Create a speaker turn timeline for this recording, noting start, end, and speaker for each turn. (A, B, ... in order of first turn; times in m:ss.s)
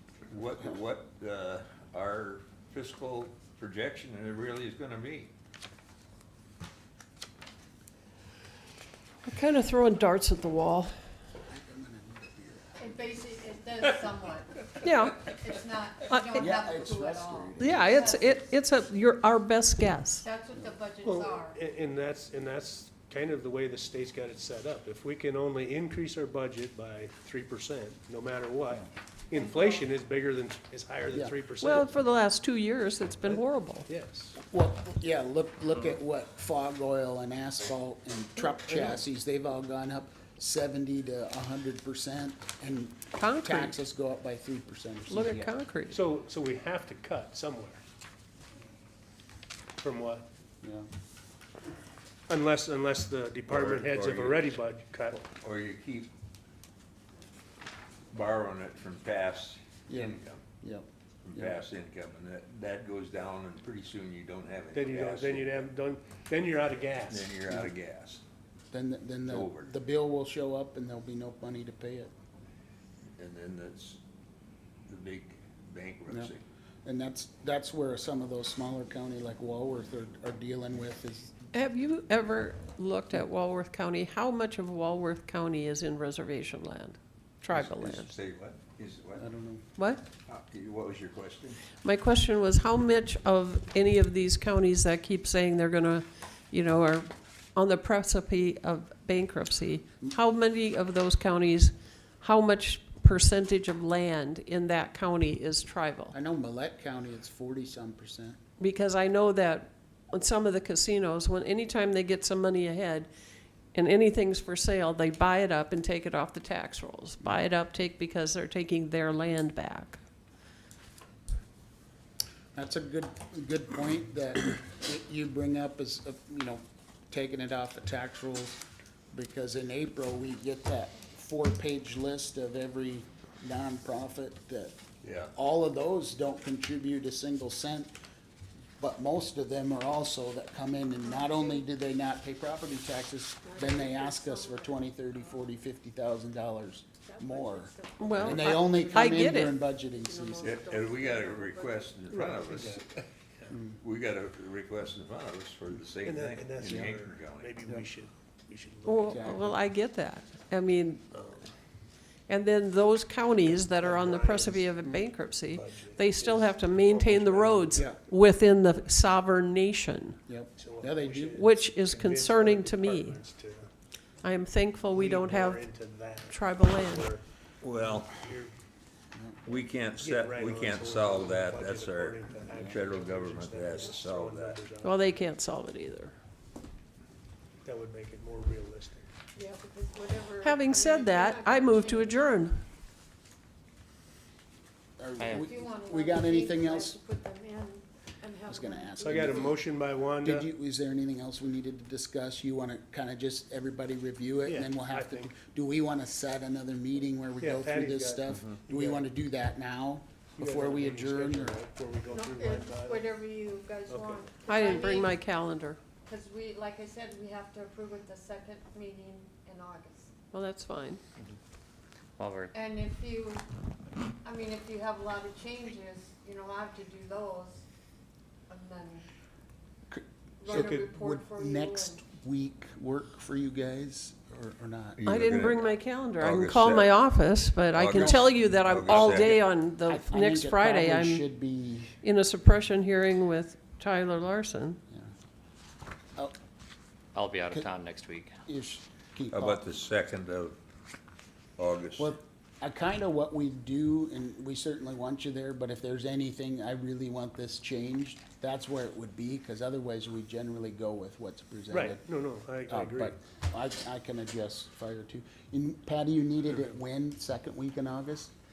0:00.3-0:05.3 A
0:09.2-0:10.9 B
0:11.4-0:13.1 C
0:12.8-0:18.4 D
0:14.8-0:15.2 B
0:16.1-0:16.6 B
0:16.4-0:18.0 C
0:17.6-0:20.2 B
0:20.2-0:21.6 D
0:21.0-0:31.7 E
0:29.3-0:29.9 D
0:31.1-0:31.3 C
0:31.6-0:33.9 B
0:33.2-0:34.3 E
0:34.4-0:45.5 C
0:38.7-0:38.9 E
0:43.2-0:43.7 B
0:45.1-0:46.0 B
0:45.9-0:47.8 E
0:49.8-0:50.2 E
0:50.6-0:50.9 C
0:52.3-0:55.2 E
0:53.5-0:54.5 A
0:55.1-0:56.1 A
0:58.1-1:00.4 A
0:59.9-1:01.6 C
1:01.2-1:05.7 A
1:04.7-1:07.4 E
1:07.1-1:08.2 A
1:08.7-1:12.1 C
1:09.3-1:09.7 A
1:13.2-1:14.0 A
1:14.9-1:16.4 A
1:16.8-1:21.4 C
1:21.5-1:28.1 B
1:27.5-1:29.2 A
1:29.2-1:29.6 C
1:29.8-1:30.0 B
1:30.3-1:31.6 A
1:31.8-1:46.1 B
1:46.1-1:48.4 C
1:48.6-1:53.1 B
1:53.7-2:00.0 B
2:02.5-2:08.6 C
2:09.1-2:14.7 C
2:15.0-2:15.3 A
2:15.3-2:17.9 C
2:18.8-2:30.6 C
2:21.0-2:21.7 D
2:23.4-2:25.5 D
2:27.0-2:29.2 D
2:28.0-2:30.0 B
2:30.0-2:32.0 D
2:30.4-2:32.9 A
2:32.1-2:32.8 E
2:33.5-2:33.8 C
2:33.8-2:37.5 A
2:36.0-2:39.2 E
2:36.6-2:36.9 C
2:38.8-2:41.0 B
2:39.1-2:39.6 C
2:42.3-2:50.2 B
2:43.8-2:44.6 E
2:45.5-2:47.7 E
2:50.3-2:51.4 C
2:50.6-2:53.7 E
2:51.3-2:53.2 B
2:54.2-2:55.7 B
2:55.0-2:57.2 E
2:56.3-2:57.1 B
2:57.6-2:58.1 A
2:57.7-2:58.5 E
2:59.1-2:59.6 C
2:59.4-3:04.6 A
3:00.0-3:04.9 E
3:02.4-3:02.8 C
3:04.8-3:06.1 B
3:07.6-3:09.1 E
3:09.3-3:12.3 D
3:10.4-3:12.6 B
3:15.0-3:17.0 C
3:15.2-3:15.5 F
3:15.3-3:19.6 D
3:18.5-3:19.6 C
3:19.0-3:20.4 E
3:20.2-3:31.6 C
3:24.4-3:25.3 E
3:27.4-3:29.0 E
3:30.4-3:33.1 E
3:32.0-3:35.2 D
3:33.9-3:34.3 E
3:34.4-3:35.8 B
3:36.0-3:40.1 D
3:40.3-3:41.0 B
3:42.2-3:42.5 F
3:42.5-3:43.4 D
3:44.2-3:47.6 D
3:48.5-3:49.0 D
3:49.9-3:55.0 C
3:50.4-3:52.0 D
3:50.6-3:50.9 E
3:55.0-3:57.0 A
3:55.0-4:01.3 B
3:57.7-3:59.4 A
3:57.9-3:59.3 C
3:59.8-4:02.0 C
4:02.0-4:04.8 B
4:07.1-4:08.4 F
4:08.4-4:09.6 C
4:09.3-4:10.6 A
4:11.6-4:12.2 A
4:12.0-4:22.0 C
4:21.7-4:23.1 E
4:22.6-4:28.3 C